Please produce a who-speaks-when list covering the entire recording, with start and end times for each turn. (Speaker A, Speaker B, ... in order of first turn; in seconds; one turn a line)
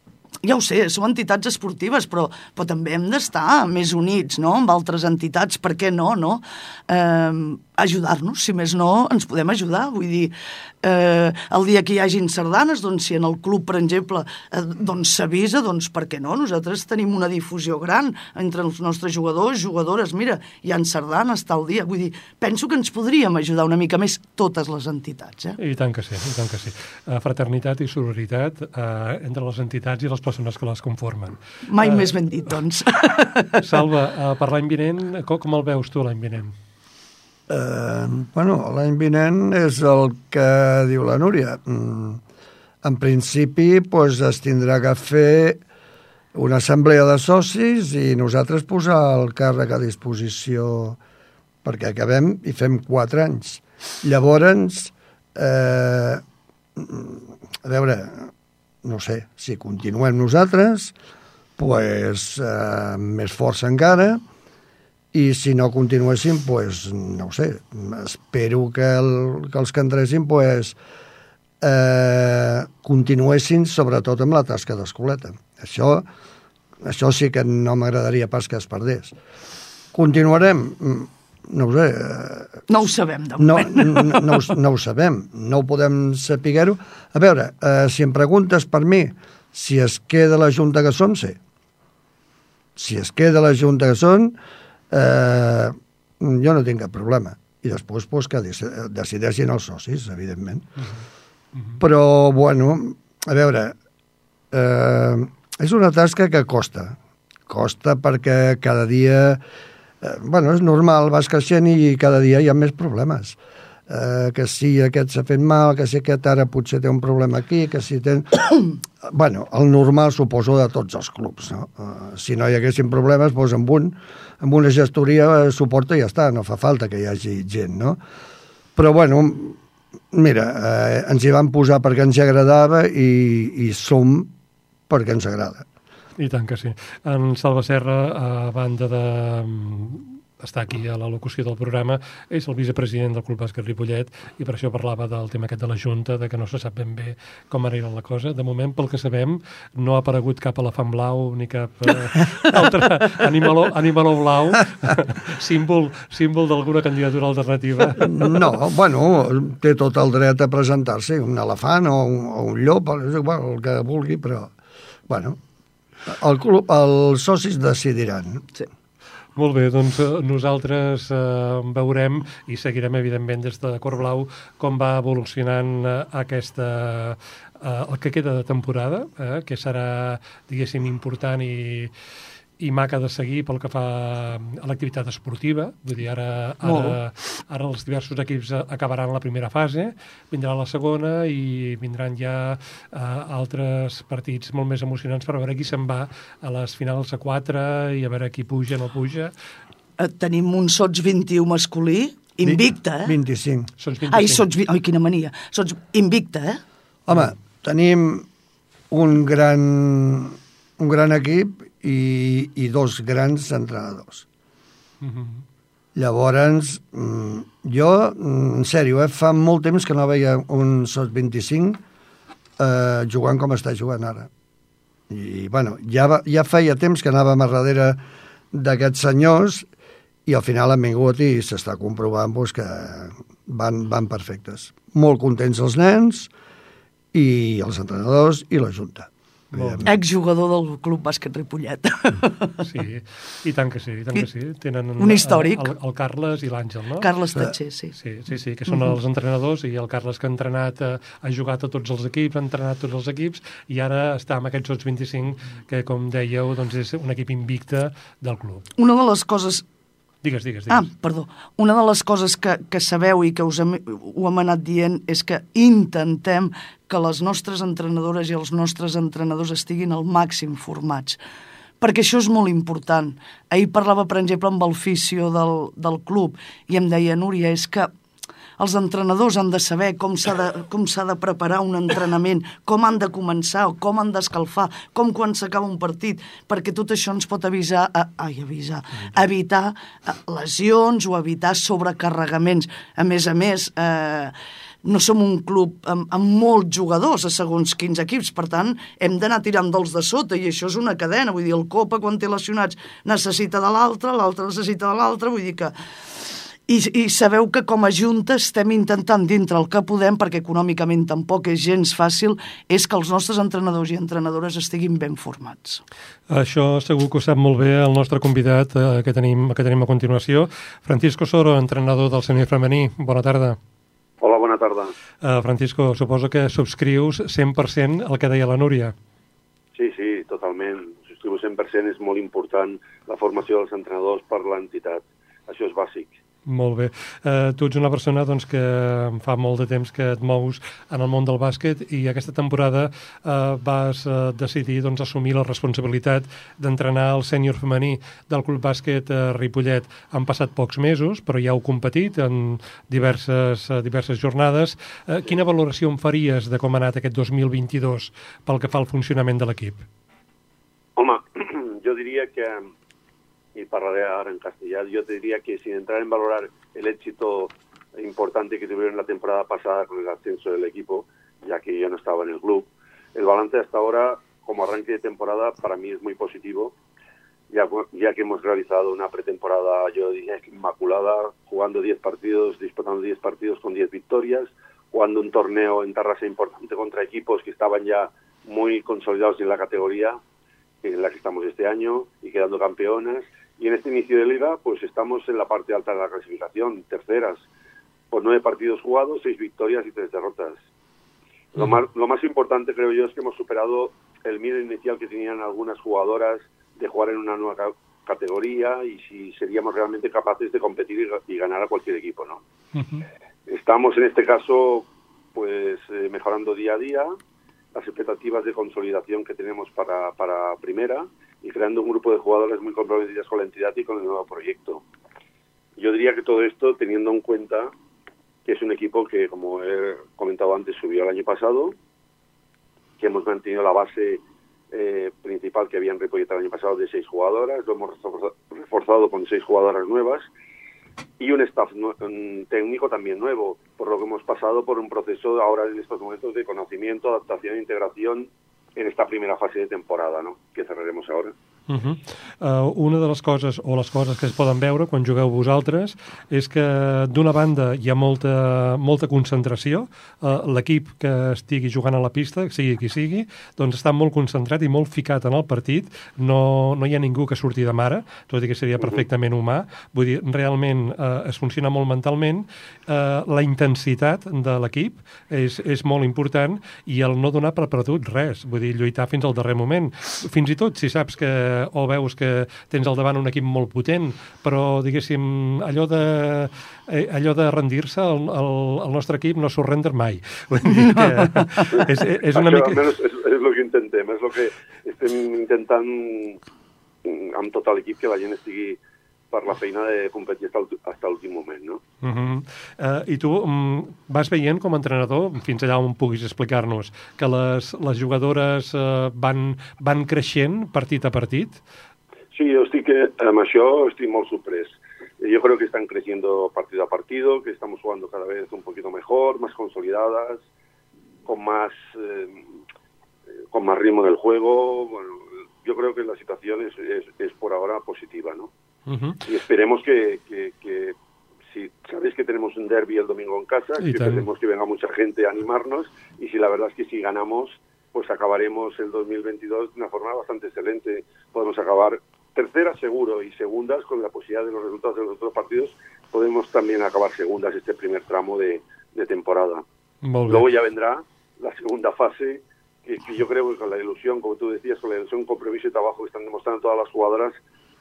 Speaker A: 0.4-25.6
Speaker B: 25.6-32.1
Speaker A: 31.7-33.6
Speaker B: 33.5-36.5
Speaker C: 37.5-42.2
Speaker C: 42.8-45.6
Speaker C: 46.3-51.0
Speaker C: 51.6-56.2
Speaker C: 56.8-58.3
Speaker C: 58.8-60.9
Speaker C: 61.6-64.2
Speaker C: 65.1-70.8
Speaker C: 71.6-76.0
Speaker C: 76.8-79.2
Speaker C: 79.9-82.6
Speaker A: 82.7-84.5
Speaker C: 83.4-91.4
Speaker C: 92.8-94.4
Speaker C: 94.9-100.7
Speaker C: 101.8-103.7
Speaker C: 104.5-107.0
Speaker C: 107.5-109.4
Speaker C: 110.0-113.4
Speaker C: 113.9-128.0
Speaker C: 128.8-129.6
Speaker C: 130.1-134.3
Speaker C: 134.9-135.7
Speaker B: 136.2-158.3
Speaker C: 158.0-164.5
Speaker C: 165.1-165.4
Speaker C: 166.1-168.4
Speaker B: 169.3-181.9
Speaker B: 182.6-199.3
Speaker A: 200.0-203.2
Speaker C: 202.4-203.7
Speaker B: 203.8-204.4
Speaker A: 204.1-206.6
Speaker C: 207.1-208.3
Speaker C: 208.9-214.2
Speaker B: 215.0-215.4
Speaker C: 215.9-221.8
Speaker C: 222.6-224.3
Speaker C: 225.1-228.0
Speaker C: 228.5-229.7
Speaker C: 230.2-236.3
Speaker C: 237.1-239.9
Speaker B: 239.5-239.9
Speaker A: 239.8-242.6
Speaker B: 242.6-247.1
Speaker A: 245.0-245.7
Speaker A: 247.0-247.9
Speaker B: 248.0-258.7
Speaker A: 248.7-248.9
Speaker A: 258.8-259.6
Speaker B: 260.2-260.9
Speaker A: 260.7-271.2
Speaker A: 271.8-277.9
Speaker A: 278.6-294.3
Speaker A: 294.8-305.7
Speaker A: 306.7-315.8
Speaker B: 316.3-323.6
Speaker D: 324.2-324.9
Speaker B: 325.2-328.9
Speaker D: 329.7-336.1
Speaker B: 336.5-359.9
Speaker D: 361.0-362.7
Speaker D: 363.5-376.7
Speaker D: 377.5-390.2
Speaker D: 390.8-397.5
Speaker D: 398.1-400.6
Speaker D: 401.5-412.4
Speaker B: 412.7-413.0
Speaker D: 413.5-417.1
Speaker D: 417.7-424.8
Speaker D: 425.8-427.7
Speaker D: 428.4-431.7
Speaker D: 433.0-440.3
Speaker D: 441.2-451.3
Speaker B: 451.7-492.8
Speaker D: 491.7-496.4
Speaker D: 497.0-498.8
Speaker D: 499.3-501.8
Speaker B: 502.0-511.6
Speaker D: 512.3-520.5
Speaker D: 521.2-522.5
Speaker D: 523.5-528.5
Speaker B: 528.9-529.2
Speaker D: 529.2-531.0
Speaker D: 531.5-549.6
Speaker B: 533.8-534.3
Speaker B: 550.0-550.5
Speaker D: 550.3-557.4